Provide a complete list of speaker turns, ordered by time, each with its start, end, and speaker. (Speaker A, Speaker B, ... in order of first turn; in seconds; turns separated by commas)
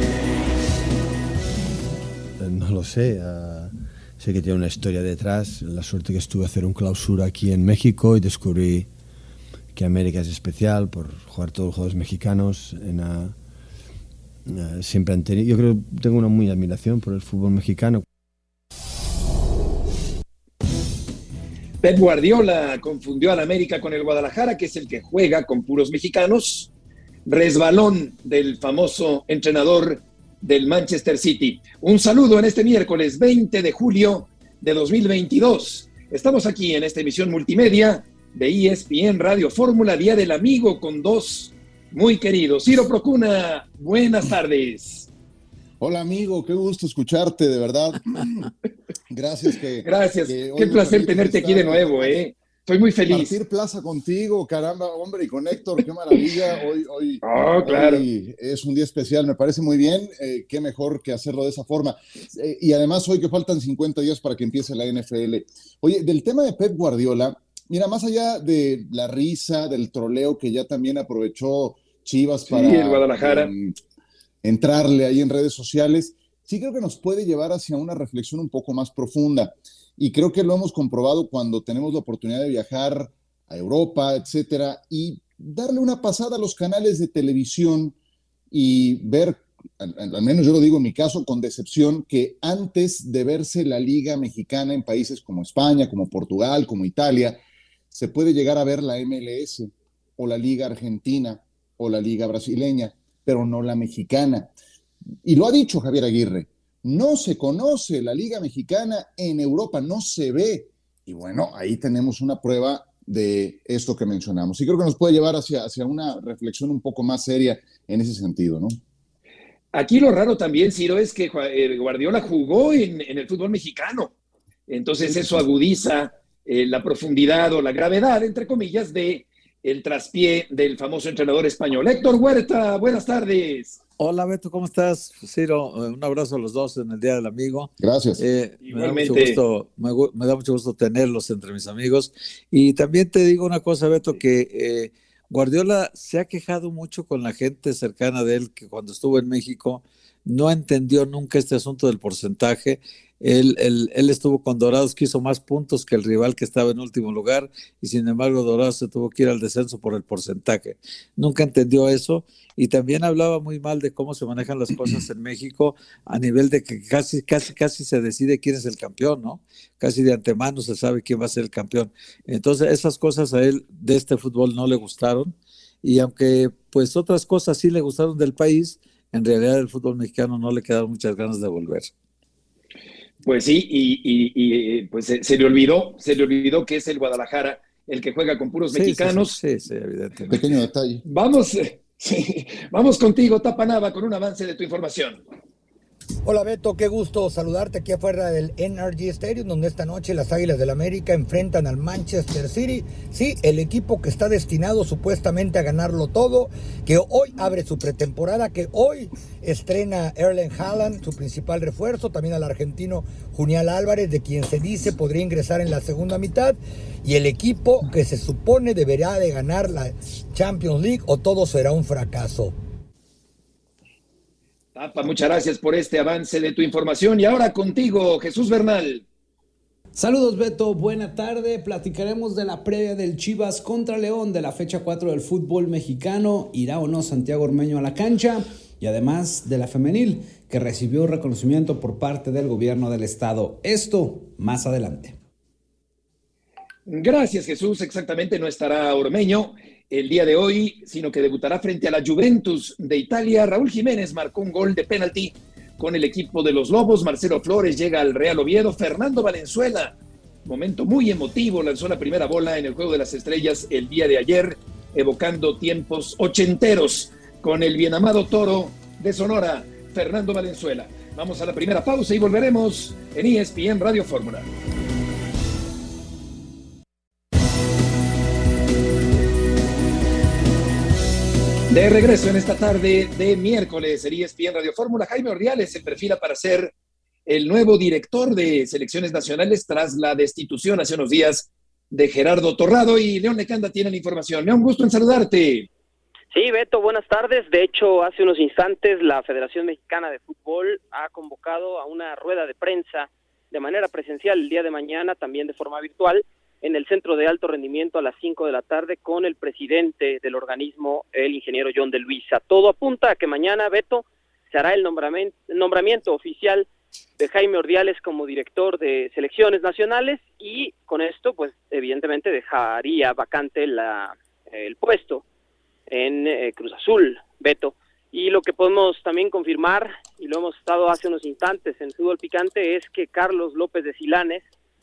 Speaker A: 2.4-8.9, Speaker A: 9.7-13.4, Speaker A: 14.5-18.0, Speaker B: 21.8-26.7, Speaker B: 27.2-45.1, Speaker C: 45.8-48.5, Speaker C: 49.1-52.2, Speaker B: 49.8-53.3, Speaker C: 53.1-73.7, Speaker B: 57.2-58.0, Speaker B: 72.5-73.5, Speaker C: 74.4-87.9, Speaker C: 88.5-97.4, Speaker C: 97.9-104.5, Speaker C: 105.2-118.8, Speaker B: 119.7-124.1, Speaker B: 124.7-133.8, Speaker D: 134.0-181.9, Speaker C: 137.8-138.2, Speaker B: 138.6-139.4, Speaker B: 183.2-189.4, Speaker D: 188.7-190.4, Speaker C: 190.3-191.0, Speaker B: 191.0-195.2, Speaker E: 196.3-222.5, Speaker B: 224.7-229.0, Speaker F: 229.9-245.2, Speaker B: 246.8-274.5, Speaker B: 281.7-286.7, Speaker B: 287.2-295.7, Speaker G: 296.3-316.7, Speaker G: 317.2-325.2, Speaker G: 325.9-334.4